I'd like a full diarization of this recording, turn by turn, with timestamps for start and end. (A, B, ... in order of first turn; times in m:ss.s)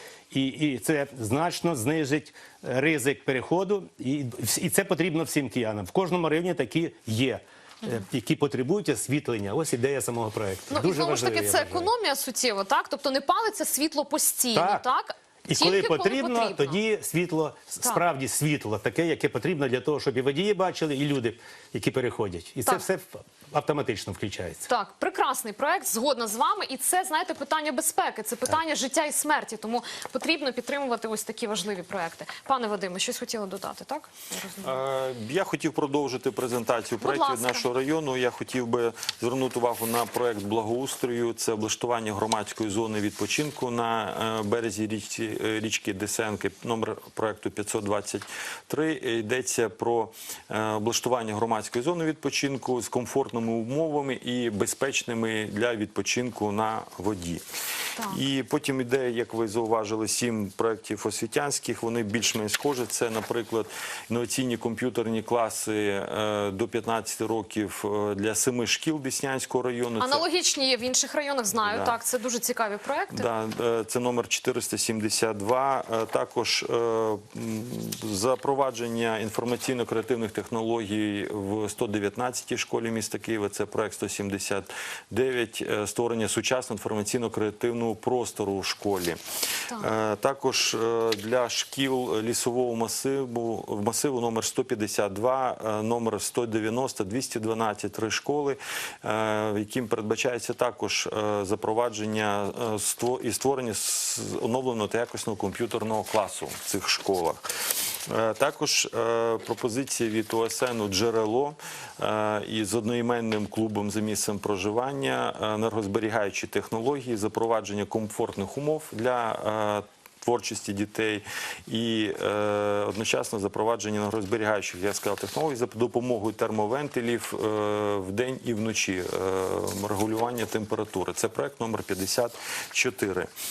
0:00.3-0:11.9 A
0:10.7-0:16.8 B
0:14.5-0:14.8 A
0:15.5-0:24.7 A
0:24.7-0:34.8 B
0:34.6-0:57.4 C
0:37.0-0:37.6 B
0:58.1-1:10.2 C
1:10.0-1:13.3 B
1:11.6-1:12.0 C
1:13.1-1:29.2 C
1:29.8-1:47.5 C
1:48.1-2:13.3 C